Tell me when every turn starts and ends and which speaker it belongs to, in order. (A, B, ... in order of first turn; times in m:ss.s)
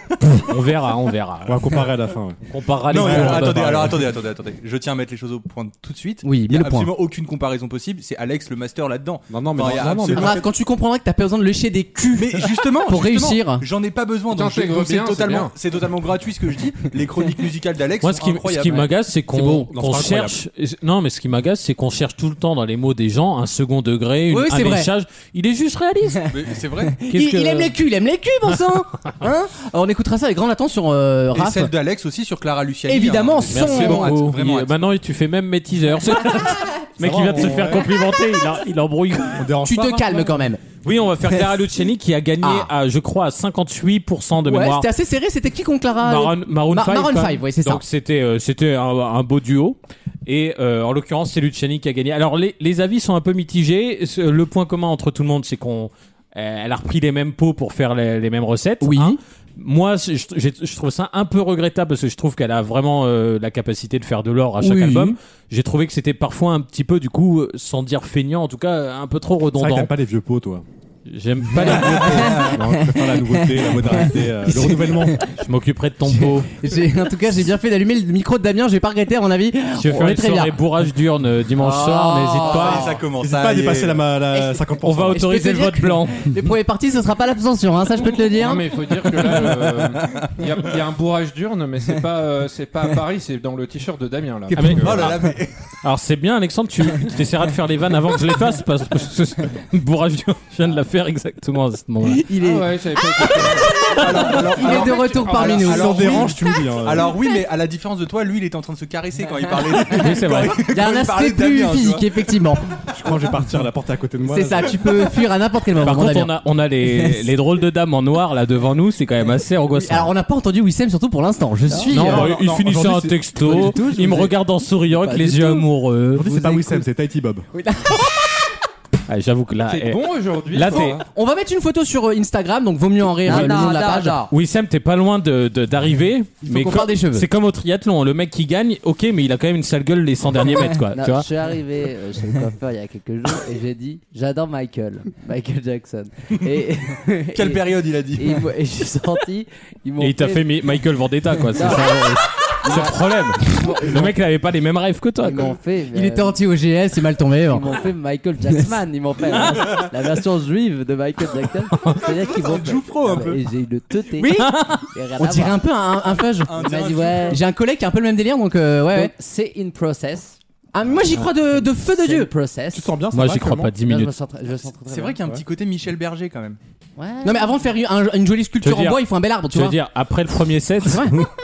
0:00.3-0:01.8 A
0:01.4-0:03.9 B
0:02.5-0:03.9 A
0:02.9-0:10.4 C
0:06.2-0:06.9 D
0:09.3-0:10.4 B
0:10.1-0:13.6 D
0:12.1-0:18.9 C
0:14.3-0:15.5 E
0:18.0-0:26.3 A
0:19.3-0:20.4 B
0:24.3-0:24.9 D
0:26.3-0:27.0 C
0:27.1-0:27.7 A
0:27.1-0:31.7 D
0:31.3-0:34.7 C
0:32.9-0:34.2 D
0:33.5-0:39.4 A
0:37.0-0:37.9 B
0:39.3-0:40.4 B
0:39.6-0:40.6 D
0:40.8-0:44.9 A
0:42.4-0:42.7 D
0:44.4-0:47.8 D
0:46.0-1:09.9 A
0:58.8-0:59.2 D
1:04.6-1:05.1 D
1:09.6-1:10.6 B
1:11.1-1:12.6 A
1:11.6-1:15.2 B
1:14.5-1:15.0 D
1:15.4-1:16.5 A
1:16.1-1:20.5 D
1:19.7-1:22.9 A
1:21.6-1:23.0 D
1:22.4-1:24.1 C
1:23.2-1:25.2 B
1:24.3-1:24.6 D
1:24.8-1:26.3 A
1:25.1-1:28.7 D
1:28.1-1:35.2 E
1:29.2-1:29.5 C
1:34.5-1:34.8 D
1:34.5-1:35.2 A
1:34.7-1:35.5 C
1:35.8-1:42.2 A
1:42.2-1:46.3 D
1:42.3-1:43.8 E
1:43.9-1:52.2 C
1:44.3-1:45.7 E
1:45.4-1:47.1 B
1:49.9-1:50.6 A
1:50.7-1:52.7 D
1:52.9-1:55.1 B
1:54.3-1:56.3 D
1:55.8-2:00.1 A
1:56.8-1:57.3 D
1:59.7-2:02.3 D
2:01.9-2:06.3 A
2:01.9-2:03.2 B
2:03.5-2:04.3 D
2:05.0-2:05.6 D
2:06.1-2:07.5 B
2:06.2-2:06.8 D
2:07.6-2:08.3 D
2:09.1-2:11.0 A
2:09.7-2:11.0 E
2:10.7-2:14.3 D
2:13.2-2:14.3 F
2:13.2-2:21.2 A
2:16.4-2:17.2 D
2:20.9-2:27.6 F
2:27.3-2:28.5 C
2:28.2-2:30.4 F
2:30.0-2:35.5 A
2:31.5-2:32.0 F
2:33.5-2:34.1 F
2:35.2-2:36.4 F
2:35.9-2:37.6 D
2:37.5-2:45.6 F
2:42.0-2:43.4 C
2:44.2-2:44.6 D
2:44.4-2:44.8 A
2:45.2-2:49.1 D
2:46.2-2:47.4 C
2:46.6-2:47.4 F
2:48.9-2:50.4 F
2:50.7-2:52.3 D
2:51.5-2:52.9 F
2:52.7-2:53.7 B
2:53.1-2:54.1 A
2:53.8-2:55.2 F
2:54.8-2:56.6 C
2:57.0-2:57.5 F
2:57.2-2:59.8 D
2:58.6-3:01.2 A
3:00.8-3:01.3 D